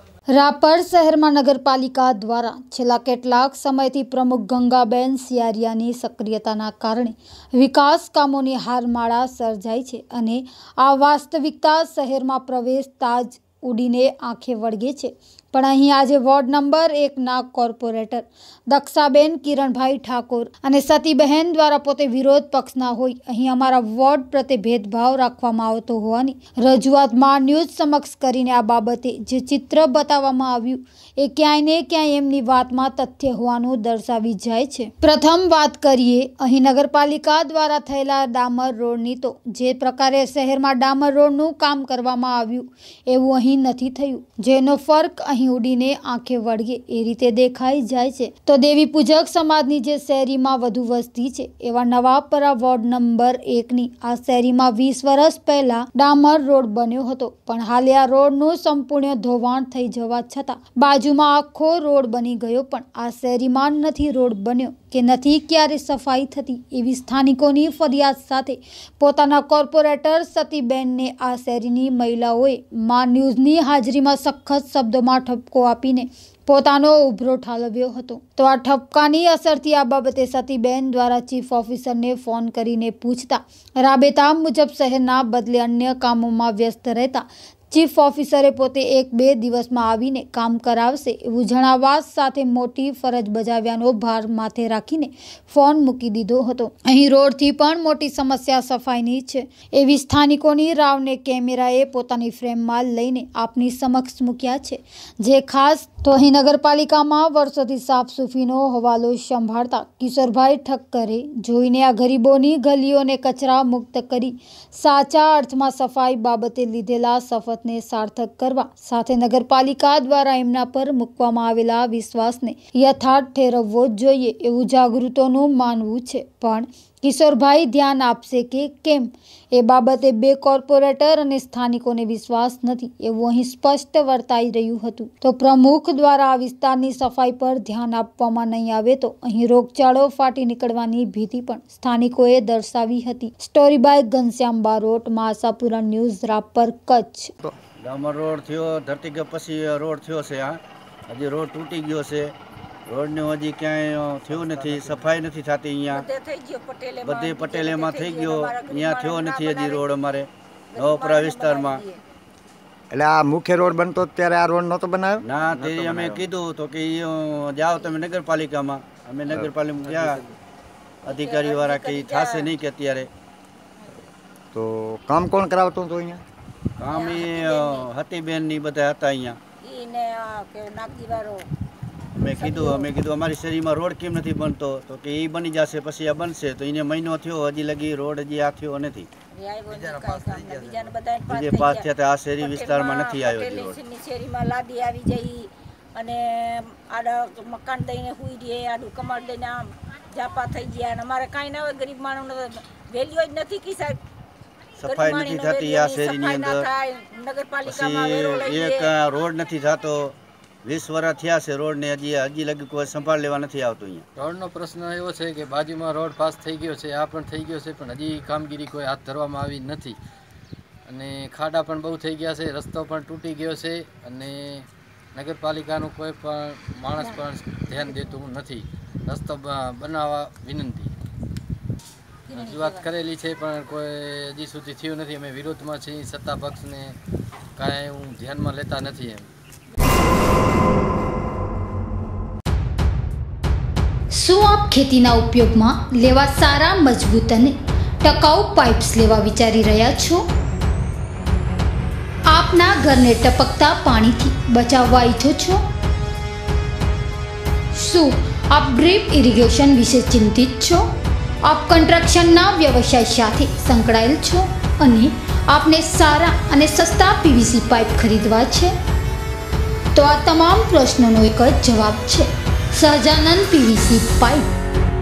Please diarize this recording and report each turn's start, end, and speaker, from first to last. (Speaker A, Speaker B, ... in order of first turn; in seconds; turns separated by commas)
Speaker A: 0.3-147.3, Speaker B: 147.8-152.3, Speaker B: 152.9-156.0, Speaker C: 154.3-155.1, Speaker D: 155.9-159.8, Speaker B: 157.0-161.8, Speaker D: 160.7-162.0, Speaker C: 162.9-165.2, Speaker B: 165.2-170.2, Speaker E: 165.8-166.1, Speaker B: 171.0-173.1, Speaker D: 171.1-172.5, Speaker C: 174.5-176.2, Speaker B: 176.8-179.4, Speaker D: 176.9-177.9, Speaker D: 179.6-181.5, Speaker B: 182.2-189.1, Speaker D: 182.3-182.9, Speaker D: 189.3-191.8, Speaker B: 191.3-193.8, Speaker D: 192.4-204.0, Speaker B: 204.8-206.7, Speaker D: 204.8-208.9, Speaker B: 207.6-214.0, Speaker E: 214.2-220.0, Speaker E: 220.9-230.9, Speaker D: 232.3-232.9, Speaker E: 232.3-237.0, Speaker E: 237.6-239.3, Speaker A: 244.1-250.2, Speaker A: 252.3-255.6, Speaker A: 257.7-260.9, Speaker A: 261.4-268.7, Speaker A: 269.9-274.5